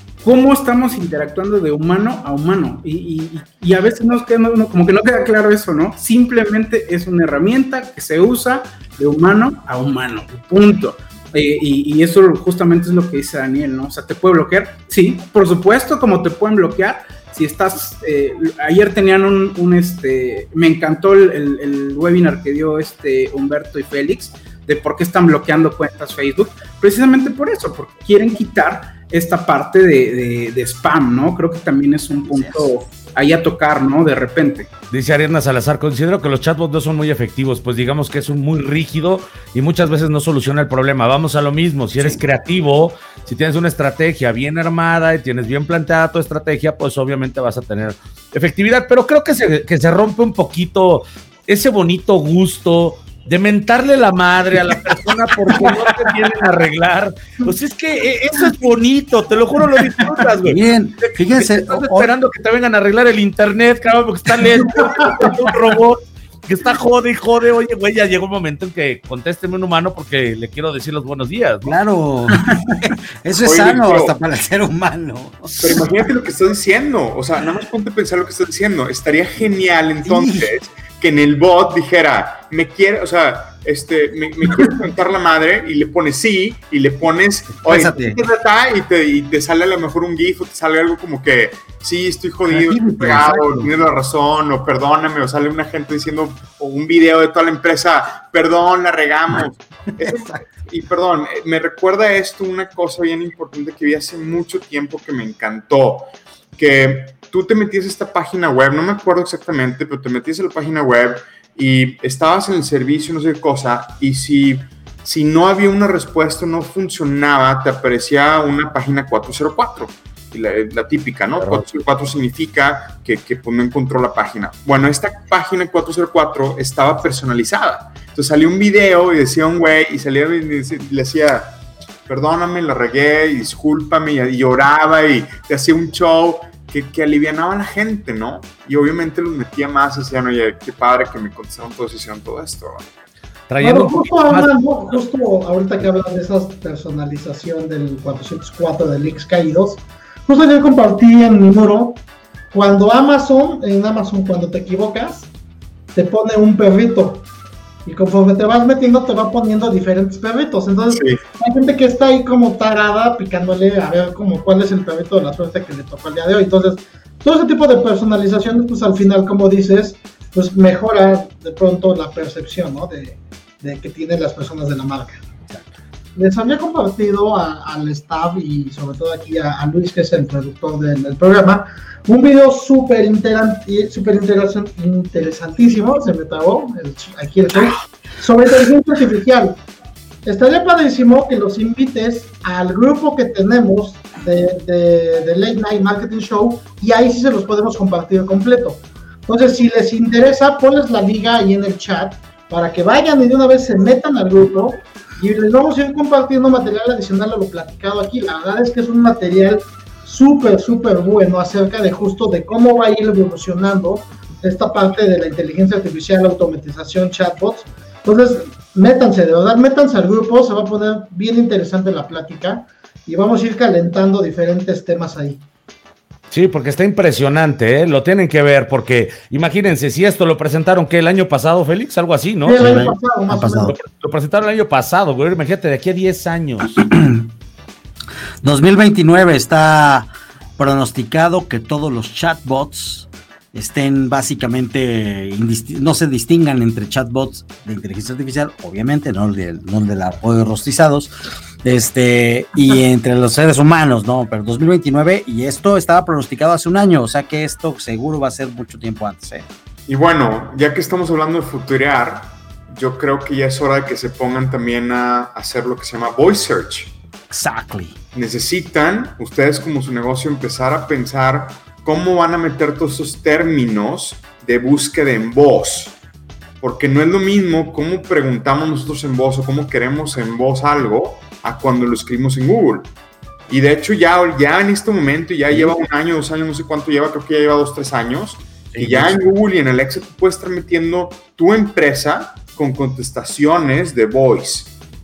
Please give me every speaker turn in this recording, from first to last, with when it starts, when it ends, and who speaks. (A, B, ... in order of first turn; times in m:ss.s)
0:00.2-0:34.7 A
0:32.3-0:32.7 B
0:34.9-1:11.8 C
0:42.0-0:42.2 B
1:00.4-1:02.1 B
1:11.6-1:15.8 B
1:13.4-1:14.1 D
1:15.6-2:11.6 D
1:20.0-1:20.5 B
1:27.6-1:28.2 B
1:32.5-1:33.7 B
1:40.0-1:40.4 B
2:12.1-2:22.9 D
2:23.5-2:25.0 C
2:23.6-2:32.0 E
2:32.5-2:35.3 E
2:35.9-2:37.3 E
2:37.8-2:55.2 E
2:40.9-2:41.2 D
2:56.2-3:09.6 E
3:10.2-3:45.4 E
3:46.3-3:52.8 C
3:52.4-3:53.7 E
3:52.6-3:53.8 B
3:53.7-3:56.8 C
3:56.8-3:57.2 B
3:58.4-4:11.1 B
4:11.6-4:19.4 B
4:19.9-4:26.9 D
4:27.3-4:28.0 B
4:28.1-4:36.0 D
4:36.6-4:42.9 D
4:43.5-4:54.8 D
4:48.7-4:49.2 B